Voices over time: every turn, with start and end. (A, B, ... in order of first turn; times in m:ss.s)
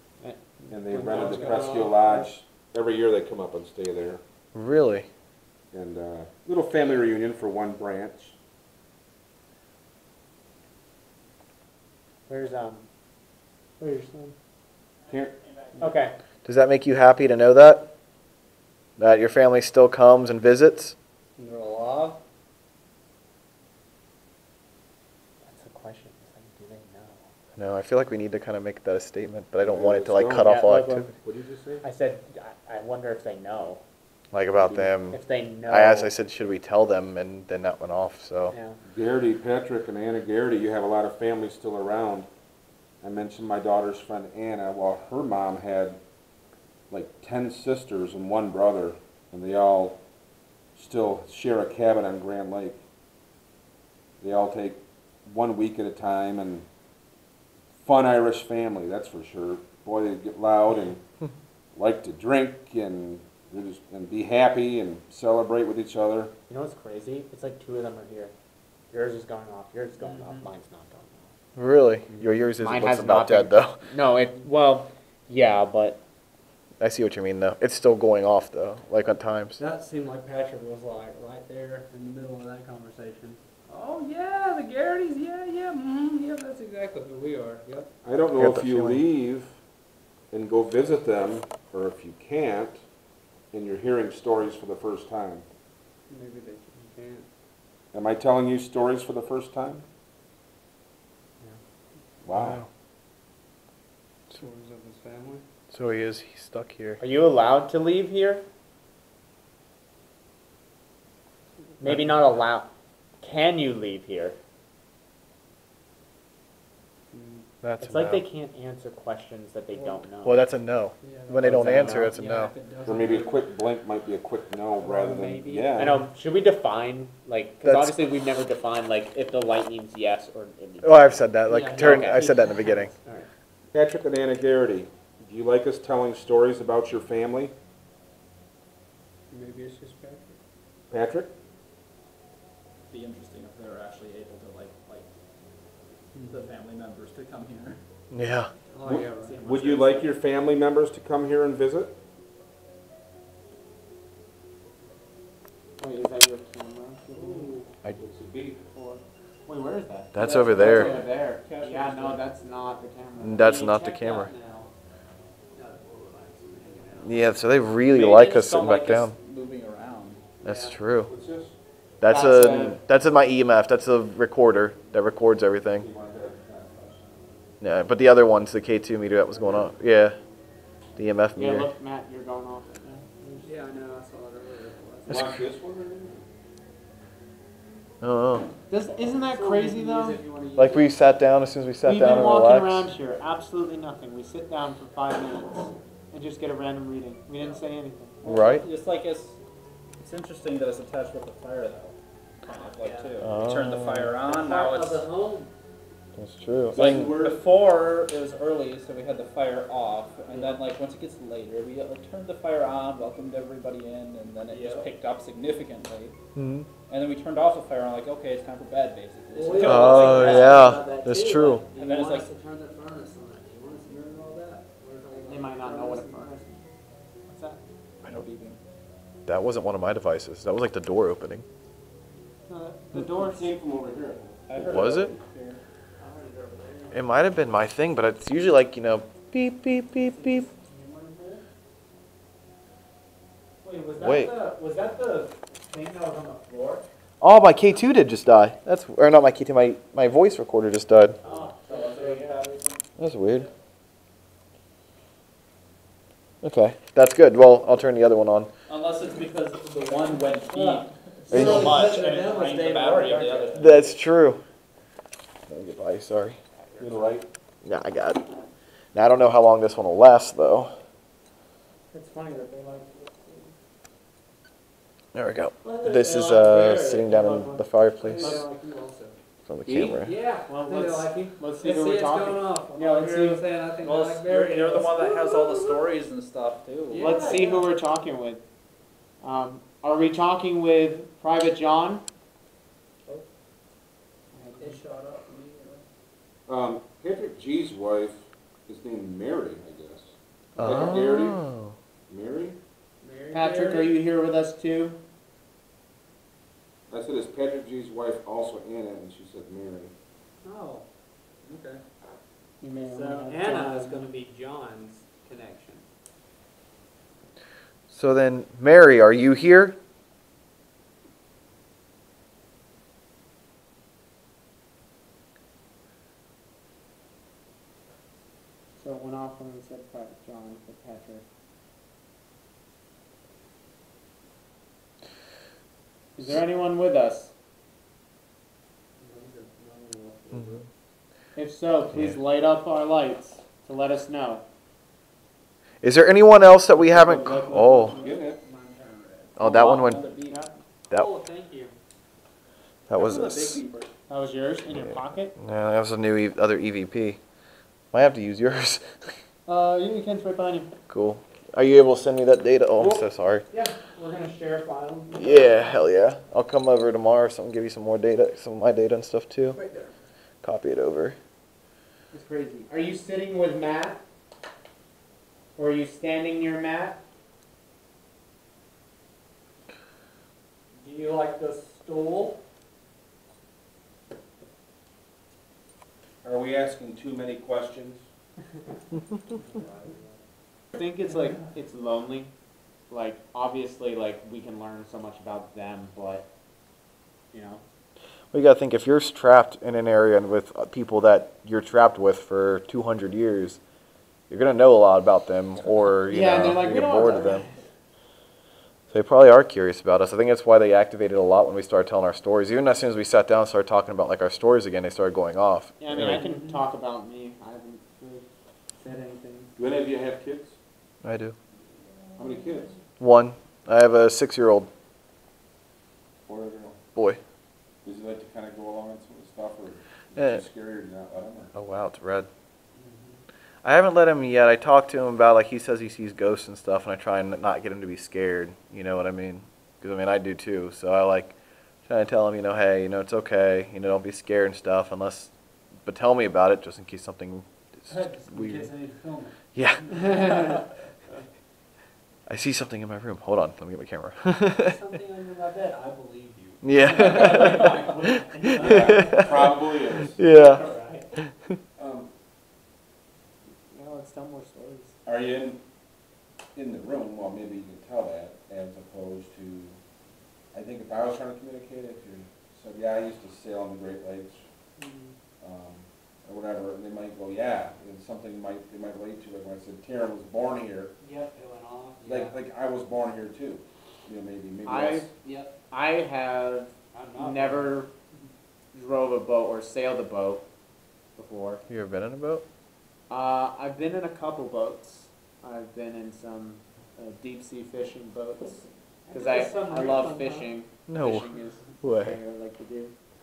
0:00.2-0:02.3 A
0:00.7-0:04.2 B
0:01.0-0:02.0 C
0:04.5-0:05.1 D
0:05.7-0:08.4 B
0:12.3-0:12.9 A
0:13.8-0:14.4 A
0:15.1-0:15.4 B
0:15.8-0:16.2 A
0:16.4-0:17.9 D
0:19.0-0:21.0 D
0:21.4-0:22.2 C
0:25.4-0:27.3 A
0:27.6-0:31.1 D
0:29.6-0:30.6 B
0:30.4-0:31.1 A
0:31.2-0:31.8 B
0:31.8-0:33.8 A
0:34.3-0:38.6 D
0:34.6-0:34.9 B
0:35.1-0:36.1 A
0:38.5-0:38.8 A
0:38.8-0:42.3 B
0:43.0-0:46.0 B
0:46.9-0:50.0 B
0:50.8-0:52.8 B
0:54.2-0:56.7 B
0:57.8-1:01.0 B
1:01.7-1:06.3 B
1:06.5-1:08.3 A
1:08.9-1:11.3 A
1:10.0-1:10.5 C
1:11.6-1:13.8 D
1:12.1-1:16.0 A
1:16.8-1:19.6 D
1:19.6-1:27.9 C
1:28.0-1:29.6 B
1:28.4-1:29.0 D
1:30.3-1:32.8 B
1:33.5-1:35.5 B
1:36.1-1:37.3 C
1:37.9-1:39.9 B
1:42.2-1:42.6 B
1:42.4-1:42.7 D
1:44.3-1:45.4 C
1:45.7-1:47.0 D
1:47.0-1:48.5 A
1:51.8-1:52.7 A
1:53.2-1:54.4 A
1:57.1-1:57.5 C
1:57.6-1:58.2 D
1:57.8-2:00.5 A
1:59.7-2:00.0 C
2:00.2-2:02.5 D
2:01.0-2:03.5 C
2:01.4-2:03.3 E
2:02.8-2:06.0 B
2:04.8-2:06.0 C
2:05.8-2:12.4 A
2:07.6-2:08.0 D
2:10.8-2:12.9 D
2:11.5-2:13.0 C
2:13.7-2:17.6 B
2:19.3-2:20.4 C
2:20.9-2:21.3 B
2:22.9-2:25.1 E
2:26.1-2:26.5 C
2:26.3-2:27.8 E
2:28.1-2:28.5 D
2:28.7-2:30.0 C
2:28.8-2:32.0 B
2:29.2-2:29.8 A
2:35.8-2:37.6 A
2:37.1-2:37.7 C
2:37.9-2:38.6 B
2:38.8-2:43.6 A
2:40.1-2:41.0 D
2:40.5-2:42.2 E
2:43.2-2:44.3 D
2:43.4-2:44.7 C
2:45.5-2:47.3 C
2:47.0-2:49.1 D
2:47.9-2:50.2 E
2:50.4-2:51.1 D
2:50.4-2:50.7 C
2:51.1-2:51.6 B
2:52.0-2:55.9 D
2:52.1-2:52.8 A
2:55.7-2:57.2 B
2:57.6-3:00.2 D
3:01.0-3:01.7 D
3:01.4-3:03.5 A
3:03.4-3:05.4 C
3:05.1-3:06.2 B
3:08.0-3:08.5 D
3:08.7-3:10.2 A
3:09.0-3:11.1 C
3:10.6-3:12.9 D
3:11.8-3:18.2 A
3:17.4-3:17.7 C
3:18.2-3:19.4 E
3:18.2-3:18.6 D
3:20.0-3:25.1 E
3:22.5-3:23.5 C
3:23.2-3:24.2 D
3:24.2-3:25.5 C
3:26.2-3:27.1 D
3:26.7-3:27.4 B
3:26.7-3:36.2 E
3:30.3-3:30.6 C
3:34.5-3:34.9 C
3:36.4-3:36.7 D
3:36.9-3:40.8 E
3:39.3-3:46.6 C
3:39.6-3:41.6 D
3:41.8-3:42.3 E
3:45.2-3:46.5 A
3:47.3-3:47.6 A
3:48.0-3:48.6 E
3:49.3-3:51.4 D
3:52.5-3:53.5 A
3:53.0-3:54.9 B
3:54.5-3:55.6 E
3:54.6-3:55.1 D
3:56.0-3:57.3 C
3:56.9-4:00.5 D
4:00.3-4:00.8 C
4:00.5-4:01.4 A
4:03.6-4:06.8 A
4:04.0-4:04.3 D
4:07.2-4:11.2 D
4:11.2-4:12.2 A
4:11.2-4:12.4 C
4:11.3-4:12.8 E
4:13.0-4:13.5 D
4:16.4-4:18.5 D
4:18.7-4:23.9 E
4:19.8-4:23.8 C
4:21.3-4:21.8 D
4:21.4-4:21.8 A
4:23.6-4:24.4 D
4:25.5-4:26.4 D
4:26.8-4:27.3 B
4:27.6-4:28.2 D
4:28.9-4:30.8 D
4:31.9-4:33.5 A
4:35.1-4:38.4 D
4:35.6-4:39.2 C
4:38.1-4:38.7 A
4:39.5-4:40.2 D
4:39.7-4:39.9 A
4:39.9-4:45.8 C
4:40.5-4:43.5 A
4:43.8-4:47.4 E
4:46.9-4:47.7 C
4:47.0-4:48.4 A
4:49.2-4:52.0 A
4:54.3-4:54.8 A
4:54.6-4:55.8 C
4:56.5-5:01.4 B
5:00.6-5:01.0 C
5:00.6-5:01.8 D
5:02.1-5:02.6 B
5:03.0-5:04.0 C
5:03.3-5:05.0 A
5:06.9-5:09.9 B
5:10.4-5:10.9 C
5:11.4-5:11.8 C
5:12.6-5:14.1 A
5:12.8-5:15.9 C
5:17.9-5:19.8 D
5:28.8-5:31.2 A
5:36.2-5:37.3 A
5:39.0-5:40.7 C
5:40.3-5:40.6 D
5:41.4-5:44.4 A
5:41.9-5:42.2 D
5:45.8-5:48.0 D
5:46.7-5:48.0 A
5:47.7-5:49.3 C
5:48.0-5:48.4 B
5:49.2-5:50.4 E
5:49.4-5:50.0 D
5:50.9-5:51.7 C
5:52.9-5:53.6 D
5:53.0-5:53.9 E
5:54.1-5:55.4 A
5:54.7-5:57.2 D
5:57.9-5:59.1 D
5:59.5-6:00.7 A
6:00.9-6:03.5 D
6:02.8-6:05.7 A
6:05.2-6:09.6 D
6:09.6-6:09.9 C
6:10.4-6:11.2 D
6:12.1-6:14.0 A
6:15.6-6:17.0 A
6:20.8-6:22.4 C
6:26.2-6:28.1 B
6:29.3-6:30.2 C
6:30.7-6:32.3 A
6:32.9-6:36.3 A
6:37.3-6:37.6 A
6:38.3-6:43.6 D
6:44.3-6:47.4 D
6:46.1-6:47.6 A
6:48.9-6:56.2 D
6:55.8-6:58.3 A
6:56.1-6:56.7 C
6:58.8-6:59.5 A
6:59.6-7:00.6 B
7:01.0-7:01.4 D
7:02.2-7:02.8 B
7:03.0-7:04.7 D
7:06.3-7:06.8 B
7:07.0-7:07.2 D
7:07.8-7:11.5 B
7:11.5-7:12.3 D
7:12.7-7:13.2 C
7:13.6-7:21.3 D
7:21.9-7:25.3 D
7:25.8-7:27.5 D
7:27.9-7:30.7 C
7:28.3-7:28.7 D
7:29.6-7:30.1 D
7:30.2-7:30.5 A
7:32.3-7:34.8 D
7:34.5-7:39.5 C
7:36.6-7:37.8 D
7:38.3-7:39.1 D
7:38.4-7:40.2 B
7:40.2-7:40.6 D
7:40.2-7:41.1 C
7:41.8-7:42.1 B
7:43.7-7:45.0 A
7:45.0-7:45.6 B
7:46.6-7:49.8 B
7:50.5-7:54.4 B
7:54.8-7:55.2 C
7:55.4-8:01.0 B
8:01.0-8:02.4 C
8:02.0-8:05.1 B
8:04.7-8:05.1 A
8:05.2-8:05.6 C
8:05.7-8:07.9 A
8:06.9-8:07.9 C
8:08.7-8:10.4 A
8:11.2-8:11.6 A
8:11.7-8:12.4 D
8:13.1-8:22.9 A
8:19.1-8:20.6 C
8:20.9-8:21.3 D
8:21.8-8:22.2 D